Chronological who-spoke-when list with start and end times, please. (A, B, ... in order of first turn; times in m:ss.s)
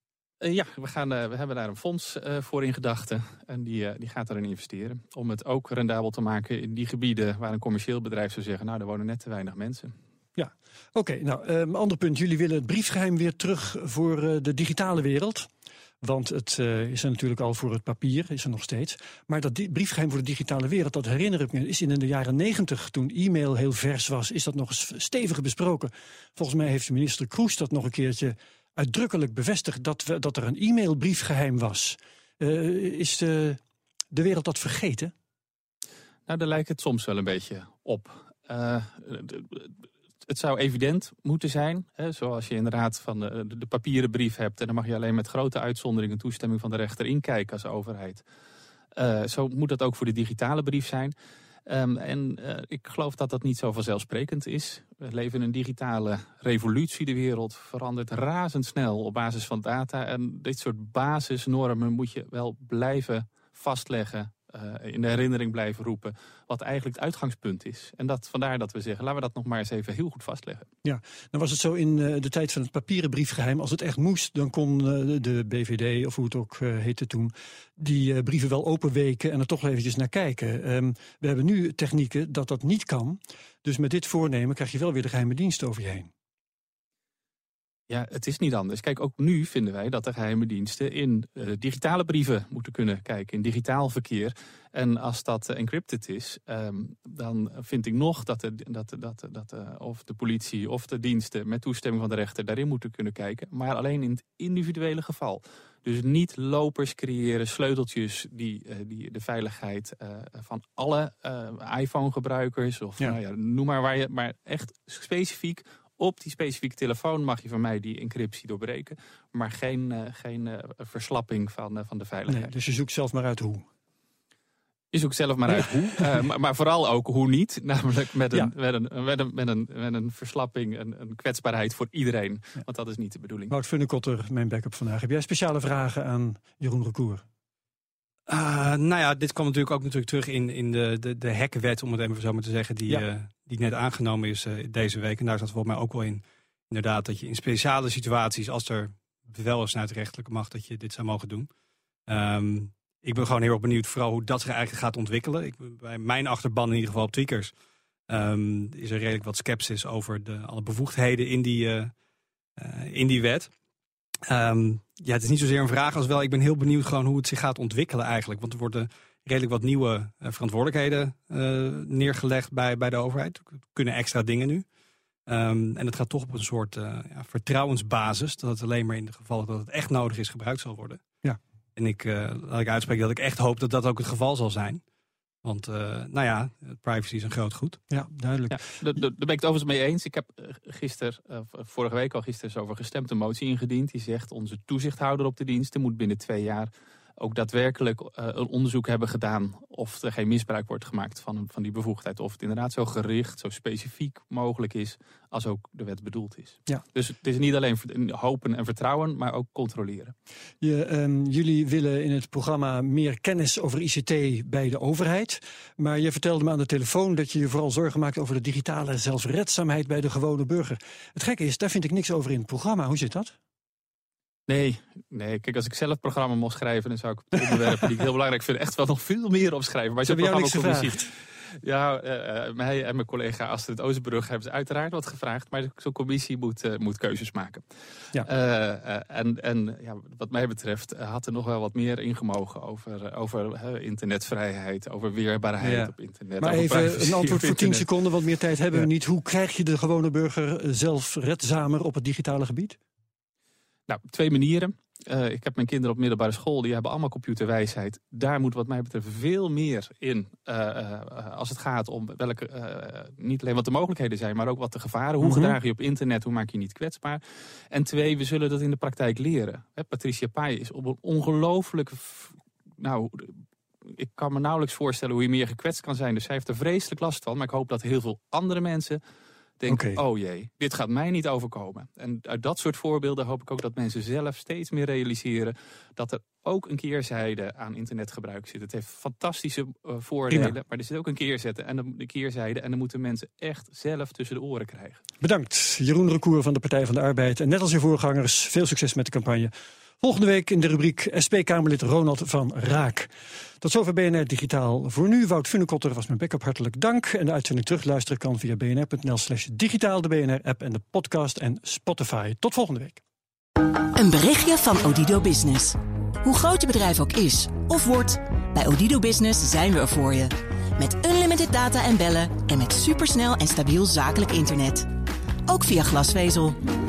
0:00.4-0:09.9 A
0:10.4-0:15.5 B
0:16.0-0:33.6 B
0:34.1-0:35.1 B
0:36.3-0:39.7 A
0:40.3-0:48.2 A
0:49.0-0:51.1 A
0:51.7-1:10.7 A
1:10.8-1:26.1 B
1:27.9-2:02.5 A
2:02.3-2:03.6 B
2:04.9-2:13.5 A
2:05.5-2:06.1 B
2:13.5-2:17.2 B
2:18.3-2:31.5 C
2:32.1-2:37.5 C
2:38.1-2:41.9 C
2:42.6-2:43.5 C
2:44.3-2:54.6 C
2:55.3-3:01.0 C
3:01.8-3:04.8 C
3:05.4-3:07.8 C
3:07.9-3:08.6 B
3:08.5-3:30.1 A
3:30.6-3:43.3 B
3:44.5-3:57.6 A
3:50.0-3:51.0 B
3:58.2-4:07.9 A
4:05.6-4:12.8 B
4:13.9-4:39.0 A
4:25.2-4:25.6 B
4:39.6-4:55.0 A
4:39.7-4:40.0 B
4:50.3-4:50.6 B
4:55.2-5:13.0 B
5:13.9-5:24.9 D
5:25.5-5:26.6 D